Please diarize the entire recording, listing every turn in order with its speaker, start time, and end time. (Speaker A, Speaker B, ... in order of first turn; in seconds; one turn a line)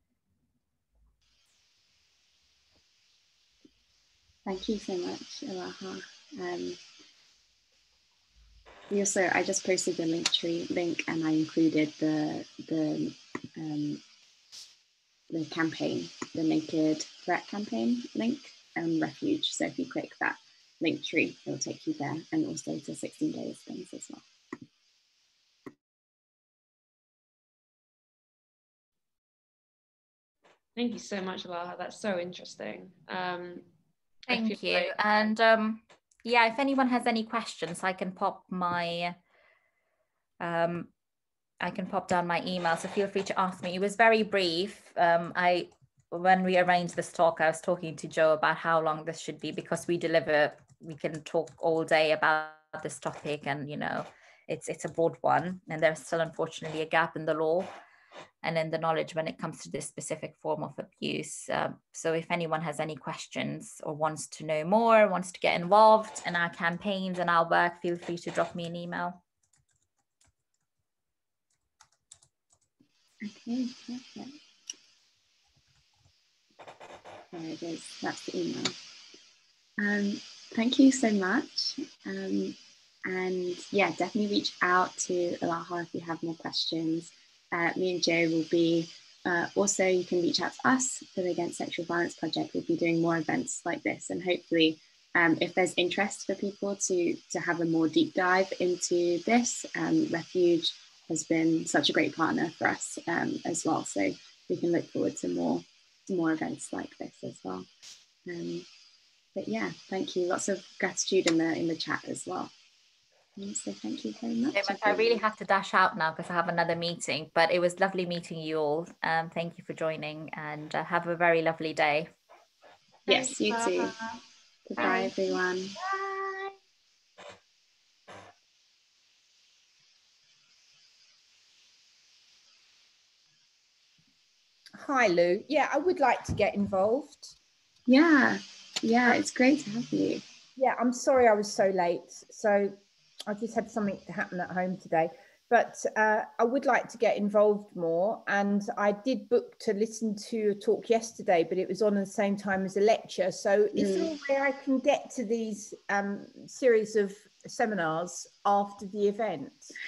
Speaker A: 4.5-6.8
Speaker A: 8.9-14.0
Speaker A: 15.3-24.2
Speaker B: 30.8-33.6
Speaker C: 34.3-39.1
Speaker B: 34.3-35.0
Speaker C: 40.4-40.9
Speaker C: 41.6-57.7
Speaker C: 58.4-69.2
Speaker A: 73.2-74.3
Speaker A: 77.3-78.7
Speaker A: 79.8-107.7
Speaker A: 108.2-108.7
Speaker A: 109.3-112.5
Speaker A: 113.4-115.2
Speaker C: 114.5-122.1
Speaker A: 123.1-123.9
Speaker A: 124.7-125.8
Speaker D: 126.0-126.4
Speaker D: 134.8-137.3
Speaker A: 137.9-140.2
Speaker D: 140.6-159.7
Speaker A: 153.7-154.1